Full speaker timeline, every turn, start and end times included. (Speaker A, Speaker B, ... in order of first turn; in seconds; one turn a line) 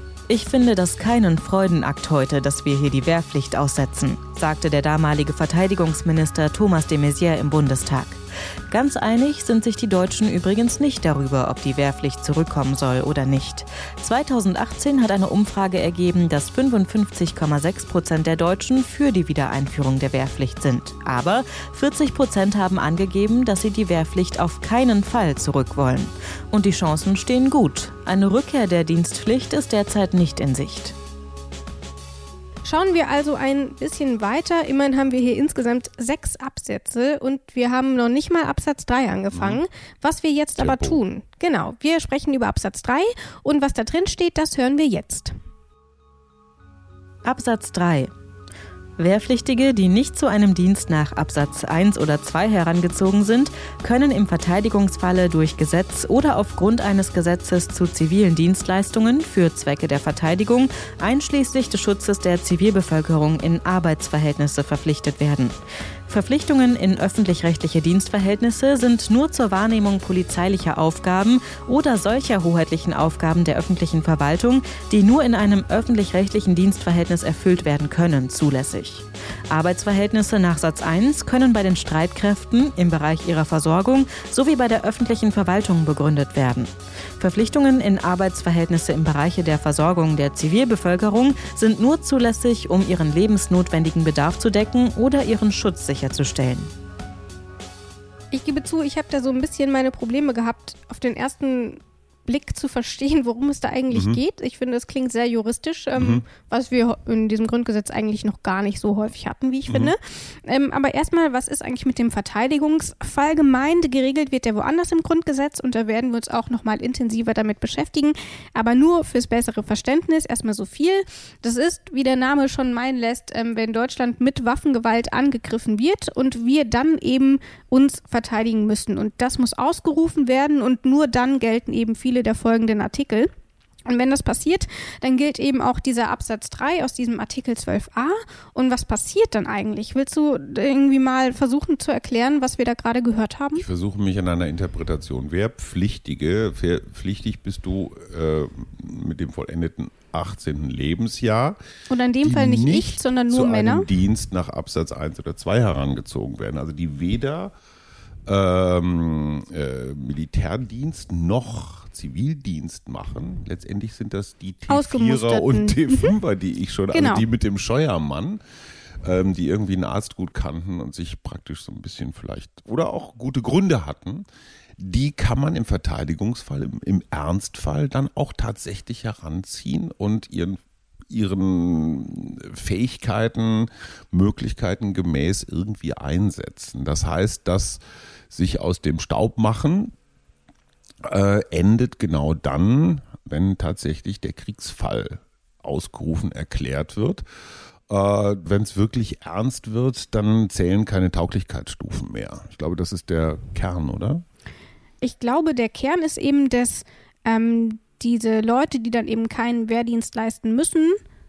Speaker A: 0.3-30.9
Speaker B: 32.6-45.4
Speaker C: 39.3-39.6
Speaker C: 40.6-41.0
Speaker A: 47.2-48.1
Speaker A: 49.0-65.5
Speaker A: 66.1-96.7
Speaker B: 98.3-133.3
Speaker C: 103.9-104.2
Speaker C: 106.0-106.2
Speaker C: 109.7-109.9
Speaker B: 133.9-143.7
Speaker C: 143.6-151.6
Speaker B: 151.9-153.9
Speaker C: 152.2-157.5
Speaker C: 158.3-168.4
Speaker B: 164.7-166.1
Speaker B: 166.9-167.2
Speaker C: 169.0-174.3
Speaker C: 174.8-189.9
Speaker C: 191.0-197.2
Speaker C: 197.9-204.2
Speaker B: 205.0-211.0